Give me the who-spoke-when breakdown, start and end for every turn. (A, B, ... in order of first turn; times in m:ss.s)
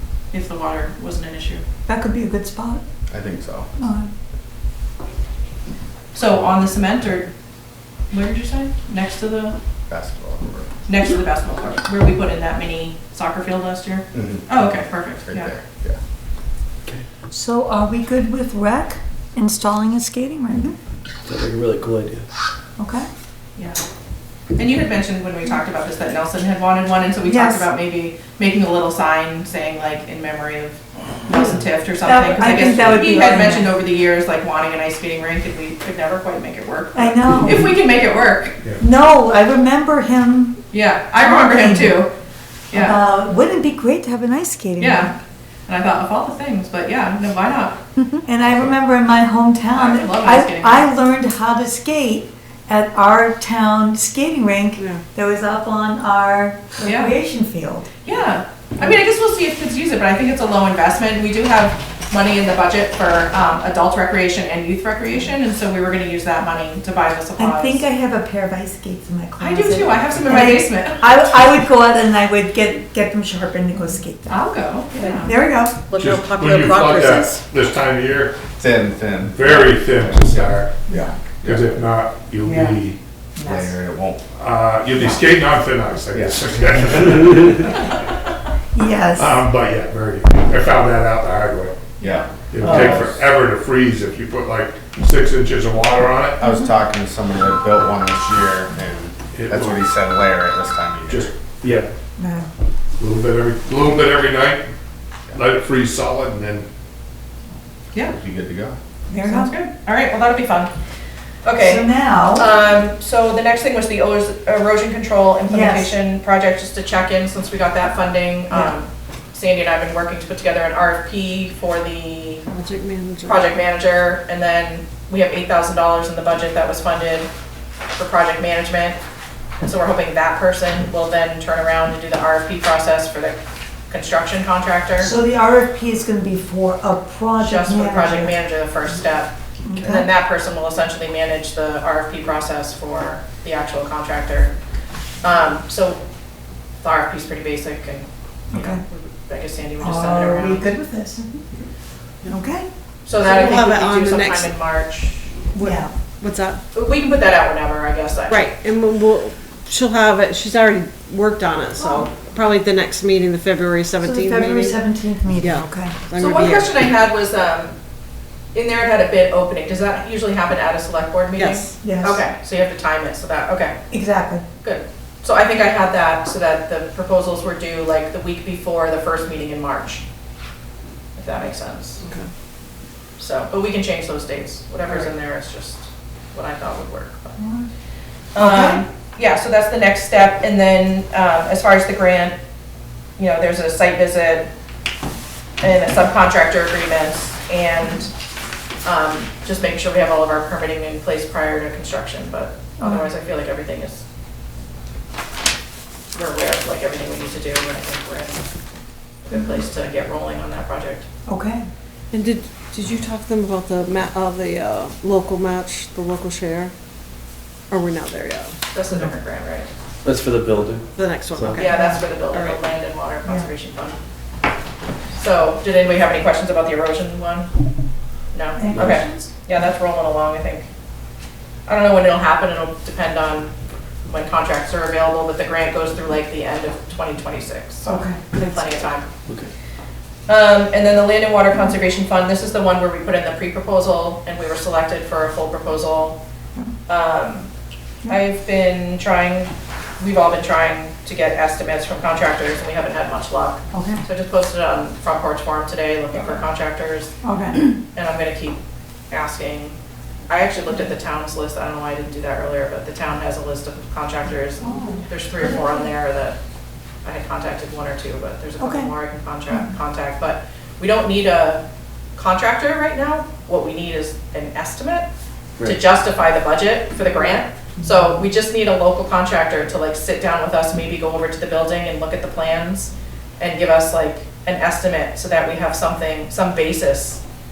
0:00.3-0:01.6 A
0:01.9-0:02.8 B
0:03.1-0:03.7 C
0:03.8-0:04.1 B
0:06.1-0:07.3 A
0:08.1-0:09.6 A
0:09.9-0:10.7 C
0:10.9-0:15.5 A
0:14.1-0:14.6 C
0:15.2-0:16.0 C
0:17.3-0:20.7 B
0:21.3-0:22.3 D
0:22.8-0:23.1 B
0:24.6-0:38.6 A
0:27.2-0:27.7 B
0:32.0-0:33.7 B
0:36.9-0:37.8 B
0:38.8-0:40.6 B
0:40.7-0:42.1 A
0:41.2-0:42.1 B
0:42.7-0:43.0 A
0:42.7-0:45.2 B
0:44.8-0:45.1 A
0:45.7-0:47.8 A
0:48.2-0:57.8 B
0:49.7-0:50.9 A
0:54.8-0:55.0 E
0:56.8-0:57.1 A
0:58.0-1:07.8 A
1:07.4-1:15.8 B
1:09.4-1:11.1 A
1:14.3-1:15.3 A
1:14.9-1:15.3 E
1:15.9-1:17.4 E
1:15.9-1:18.4 F
1:18.6-1:21.7 C
1:19.3-1:20.8 F
1:21.4-1:23.0 F
1:22.4-1:22.8 B
1:23.4-1:23.7 B
1:23.4-1:24.2 C
1:24.3-1:27.9 F
1:26.1-1:26.9 C
1:28.7-1:29.3 B
1:29.2-1:31.7 F
1:32.0-1:33.1 A
1:32.0-1:33.1 C
1:32.5-1:36.4 F
1:32.6-1:33.0 D
1:36.4-1:41.3 C
1:36.4-1:36.7 B
1:39.3-1:39.9 F
1:41.1-1:41.9 F
1:42.2-1:42.5 B
1:43.0-1:44.6 F
1:45.3-1:46.6 F
1:48.1-1:48.8 C
1:49.1-1:49.5 B
1:49.2-1:50.7 A
1:51.4-2:02.4 A
1:51.6-1:52.4 B
1:55.5-1:55.9 B
2:02.5-2:03.5 E
2:03.2-2:07.3 A
2:07.9-2:09.0 A
2:09.6-2:13.4 A
2:13.9-2:15.1 A
2:15.0-2:18.4 B
2:17.4-2:24.5 A
2:19.6-2:20.1 B
2:25.2-2:26.0 A
2:26.8-2:30.7 A
2:28.5-2:28.8 B
2:29.8-2:31.4 B
2:32.2-2:32.7 B
2:33.0-2:35.3 A
2:33.1-2:34.6 E
2:35.5-2:35.9 B
2:35.5-2:36.6 E
2:36.7-2:38.5 A
2:38.3-2:44.8 E
2:41.8-2:42.1 B
2:44.0-2:45.9 B
2:45.4-2:46.7 E
2:46.1-2:47.8 A
2:48.5-2:53.8 A
2:51.3-2:51.7 E
2:51.8-2:52.2 B
2:53.9-2:54.4 B
2:54.6-3:00.0 A
3:01.2-3:02.0 A
3:02.0-3:02.3 E
3:03.2-3:07.4 A
3:07.4-3:07.7 B
3:08.3-3:12.4 A
3:08.4-3:08.8 B
3:13.2-3:14.5 A
3:15.6-3:18.1 A
3:18.8-3:24.0 A
3:22.8-3:23.0 B
3:26.1-3:28.4 A
3:29.2-3:31.1 A
3:31.3-3:31.6 B
3:32.1-3:36.7 E
3:37.7-3:38.5 E
3:38.7-3:39.7 A
3:40.0-3:40.8 D
3:40.9-3:42.6 E
3:41.3-3:41.6 D
3:41.6-3:44.0 A
3:41.6-3:42.0 B
3:45.2-3:47.5 A
3:48.3-3:50.7 A
3:48.6-3:49.3 B
3:51.7-3:53.5 A
3:54.1-3:59.0 A
3:57.8-3:58.6 B
4:00.3-4:06.2 A
4:06.9-4:07.5 A
4:08.0-4:17.1 A
4:13.7-4:14.0 B
4:17.2-4:17.7 B
4:17.8-4:19.8 A
4:20.3-4:26.4 A
4:24.6-4:25.0 B
4:27.0-4:31.6 A
4:28.6-4:28.9 B
4:32.2-4:35.1 A
4:35.6-4:47.2 A